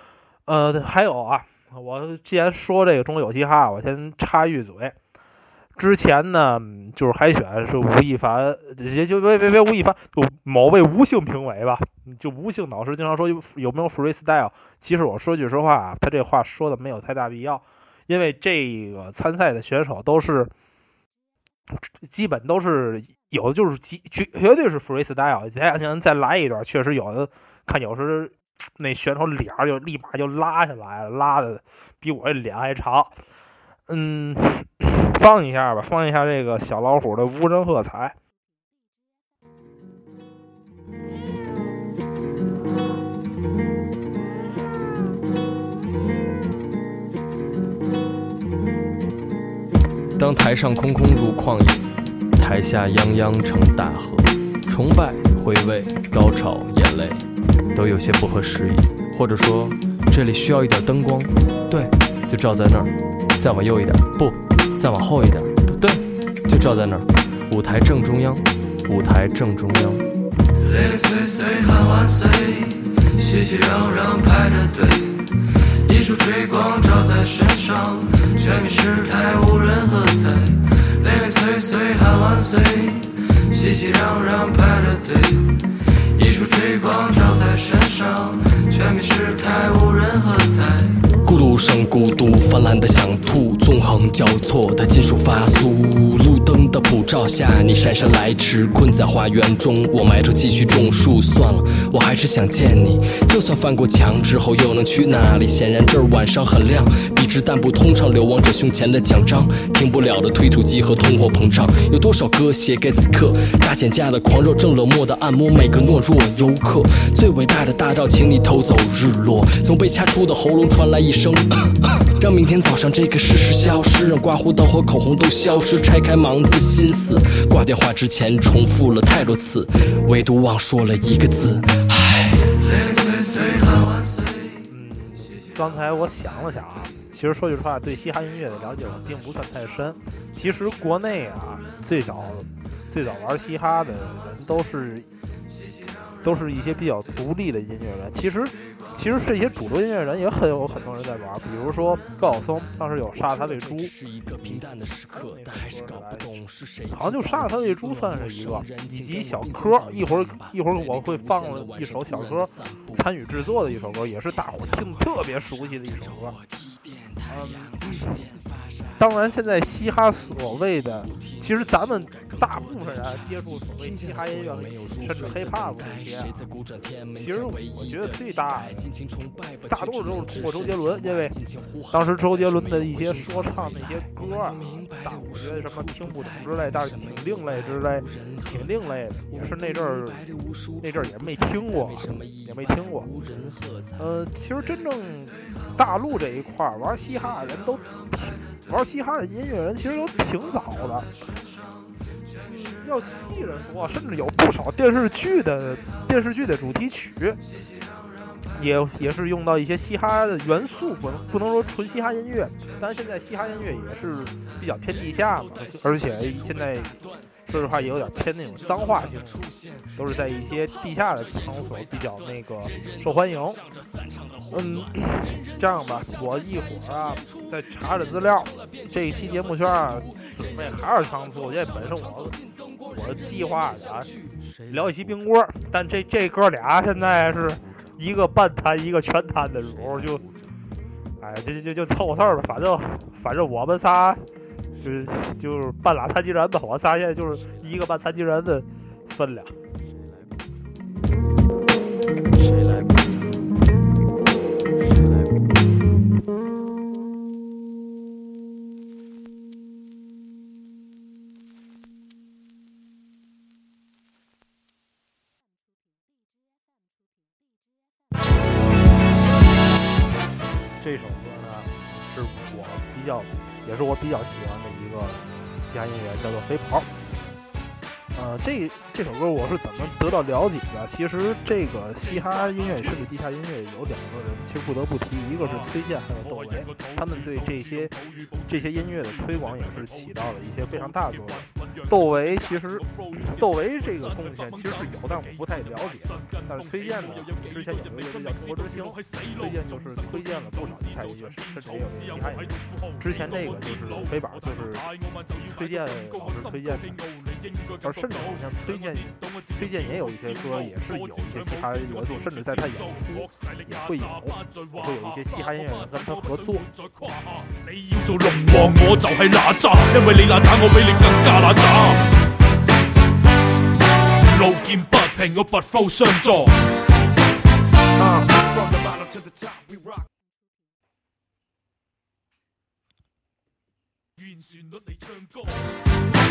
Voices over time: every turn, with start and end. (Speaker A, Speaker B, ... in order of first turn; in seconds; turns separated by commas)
Speaker A: 0.5-5.0, Speaker A: 5.8-20.5, Speaker A: 22.0-33.2, Speaker A: 33.9-38.2, Speaker B: 50.2-70.0, Speaker C: 70.6-75.3, Speaker C: 75.9-85.6, Speaker C: 86.2-91.0, Speaker B: 91.2-121.5, Speaker B: 122.2-132.4, Speaker C: 132.5-134.6, Speaker A: 134.7-145.1, Speaker A: 146.2-156.4, Speaker B: 153.2-169.0, Speaker A: 156.9-166.4, Speaker A: 167.3-168.3, Speaker A: 169.0-176.4, Speaker B: 170.5-194.1, Speaker A: 177.1-179.0, Speaker A: 179.7-181.4, Speaker A: 181.9-190.2, Speaker A: 190.8-193.1, Speaker A: 194.0-201.1, Speaker A: 202.4-207.4, Speaker A: 208.6-223.6, Speaker B: 219.4-219.8, Speaker B: 222.7-223.1, Speaker B: 224.1-225.4, Speaker A: 224.5-232.4, Speaker B: 229.7-230.3, Speaker B: 232.6-233.6, Speaker A: 232.9-234.1, Speaker B: 234.1-235.3, Speaker A: 234.7-240.2, Speaker B: 236.9-238.0, Speaker B: 239.5-240.6, Speaker A: 241.2-249.6, Speaker B: 244.8-245.1, Speaker B: 247.4-247.7, Speaker B: 249.8-250.5, Speaker B: 252.3-253.5, Speaker B: 254.7-255.4, Speaker A: 270.8-276.9, Speaker A: 278.1-287.9, Speaker A: 288.5-304.9, Speaker A: 305.4-307.0, Speaker A: 307.8-316.7, Speaker D: 317.5-322.0, Speaker D: 324.3-326.6, Speaker E: 328.0-330.1, Speaker D: 334.2-335.6